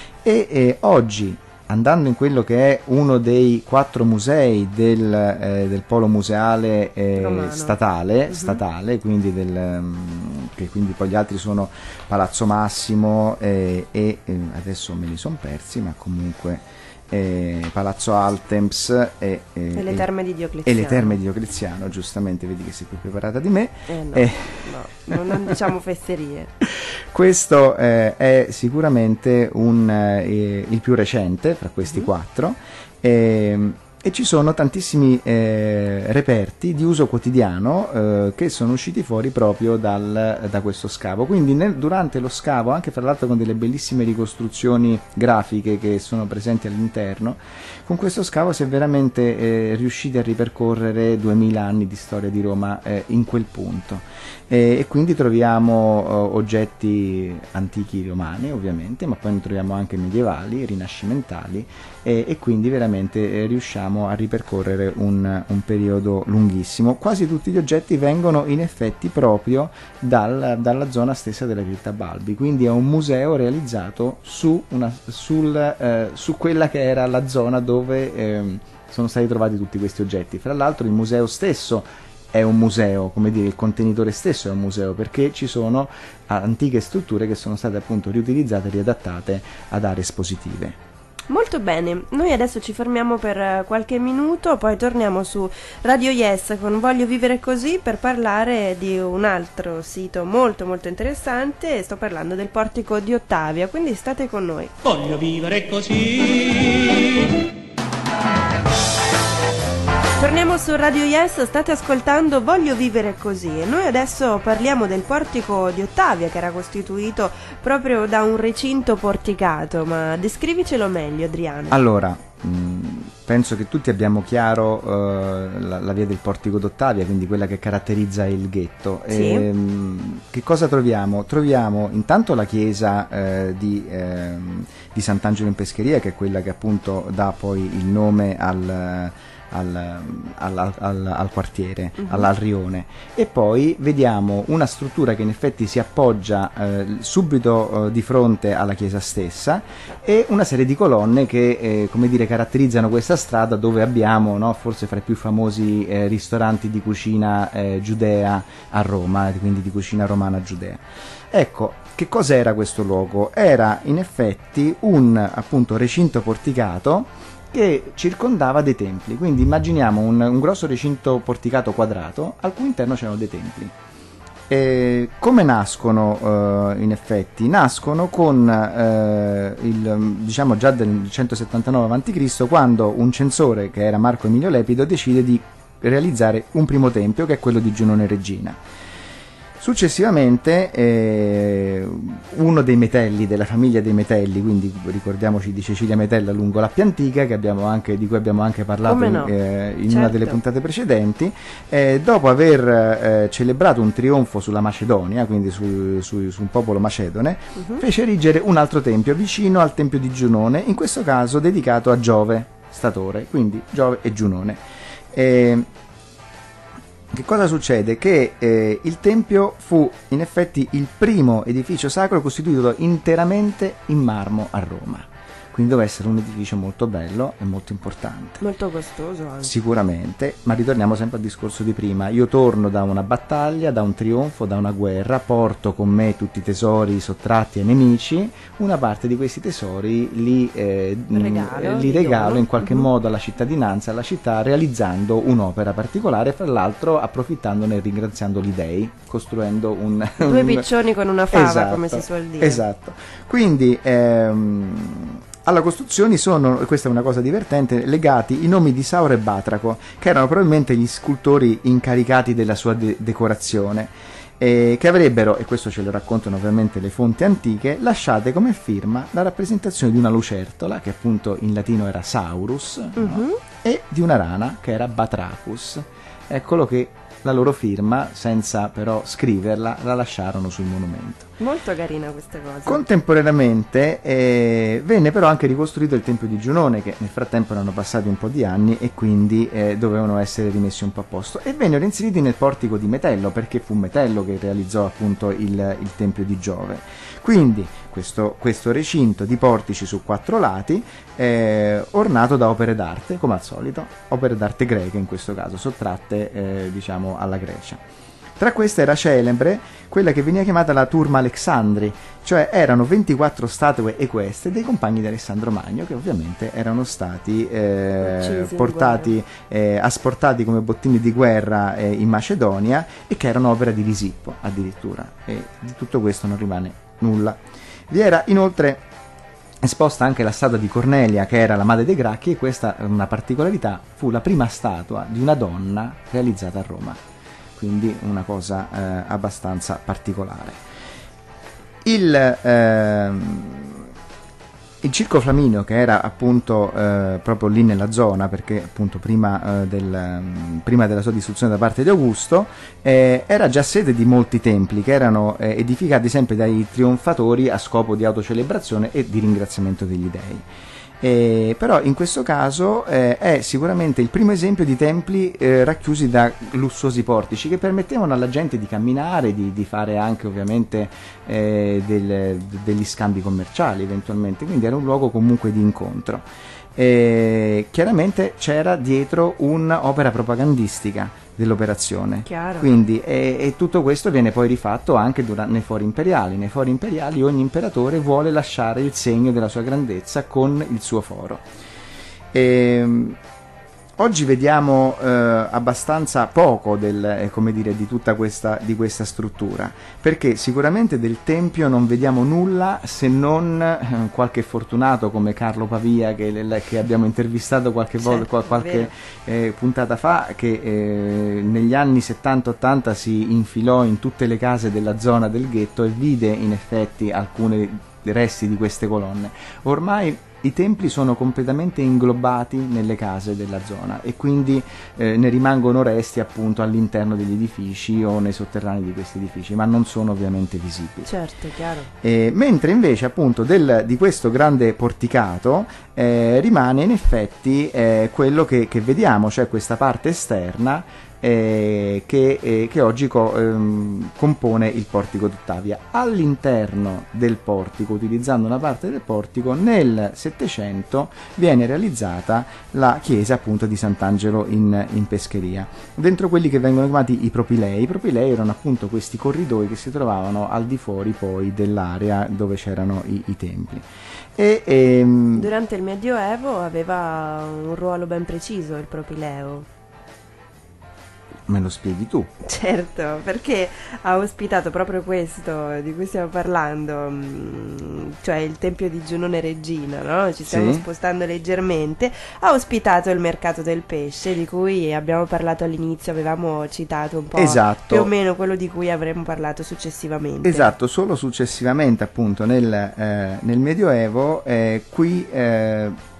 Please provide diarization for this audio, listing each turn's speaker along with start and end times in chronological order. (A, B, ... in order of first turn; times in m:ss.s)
0:00.2-0:20.1 A
0:07.2-0:07.8 B
0:08.3-0:08.6 B
0:19.7-0:21.2 B
0:20.6-0:25.5 A
0:23.9-0:26.5 B
0:26.6-1:30.8 A
1:31.3-1:44.7 B
1:44.8-1:47.4 C
1:50.2-2:01.8 B
2:01.7-2:53.7 A
2:09.1-2:09.4 B
2:54.5-3:08.6 A
3:09.6-3:34.6 A
3:18.8-3:19.3 B
3:19.9-3:20.4 B
3:35.1-3:35.6 A
3:37.1-3:48.4 A
3:48.4-3:49.5 B
3:49.4-4:10.7 A
4:01.1-4:02.9 B
4:10.2-4:12.6 B
4:11.3-4:41.3 A
4:33.0-4:33.4 B
4:41.4-4:42.8 B
4:42.6-5:07.8 A
5:08.4-5:28.8 A
5:18.0-5:19.1 B
5:29.6-5:37.0 A
5:37.6-5:40.6 A
5:41.8-5:43.9 A
5:44.8-6:00.4 A
6:01.0-6:31.4 A
6:22.2-6:22.7 B
6:32.3-6:33.2 A
6:34.0-7:11.1 A
6:48.0-6:48.9 B
7:11.0-7:11.9 B
7:12.0-7:45.5 A
7:45.3-7:49.7 B
7:51.5-7:52.3 A
7:52.4-8:10.7 B
8:00.4-8:00.8 A
8:07.4-8:08.1 A
8:10.4-8:16.0 A